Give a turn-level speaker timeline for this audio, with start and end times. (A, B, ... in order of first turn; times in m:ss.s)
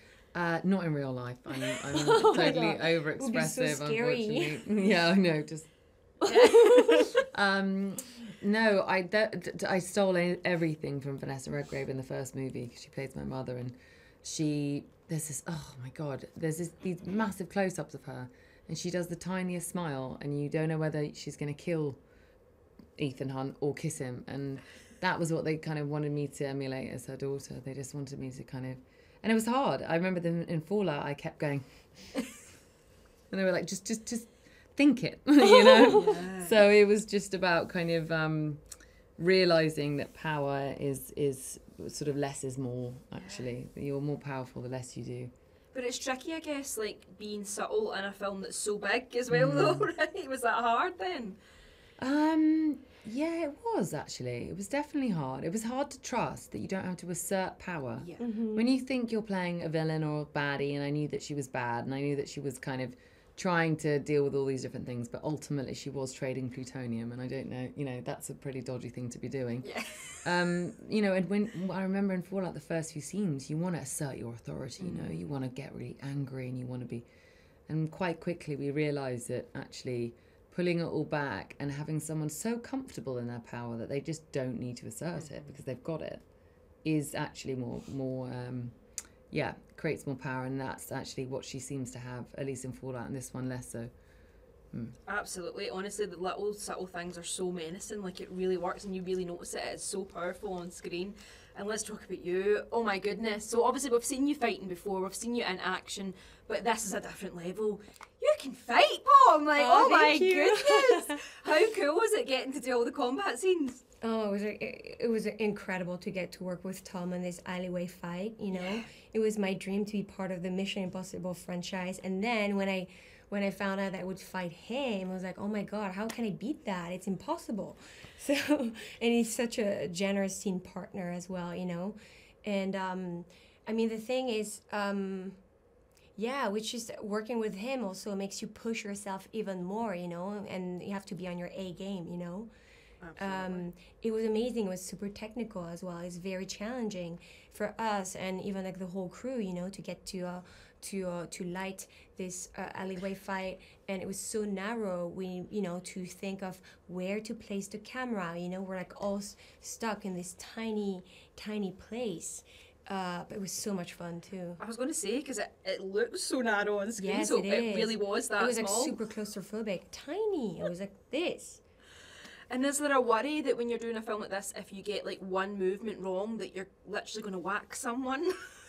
0:00.3-0:05.7 A
0:01.9-0:04.8 B
0:06.2-0:07.2 C
0:06.3-0:07.1 B
0:07.3-0:22.0 A
0:23.0-0:31.6 A
0:33.3-0:38.6 A
0:35.8-0:36.6 C
0:39.2-0:45.3 A
0:43.2-0:43.5 C
0:45.7-0:51.4 C
0:49.3-0:49.9 A
0:52.0-1:17.0 A
0:58.0-0:58.2 C
0:58.2-0:58.7 B
1:09.6-1:10.2 C
1:14.8-1:15.3 C
1:17.7-1:26.2 A
1:25.1-1:25.6 C
1:26.8-1:28.7 A
1:29.3-1:33.9 A
1:35.0-1:53.8 C
1:49.6-1:51.2 B
1:54.0-2:15.4 B
1:58.5-1:58.9 C
2:16.2-2:22.5 B
2:23.0-2:23.6 C
2:23.2-2:44.6 B
2:44.6-2:49.0 C
2:47.0-2:51.6 B
2:52.5-2:58.3 C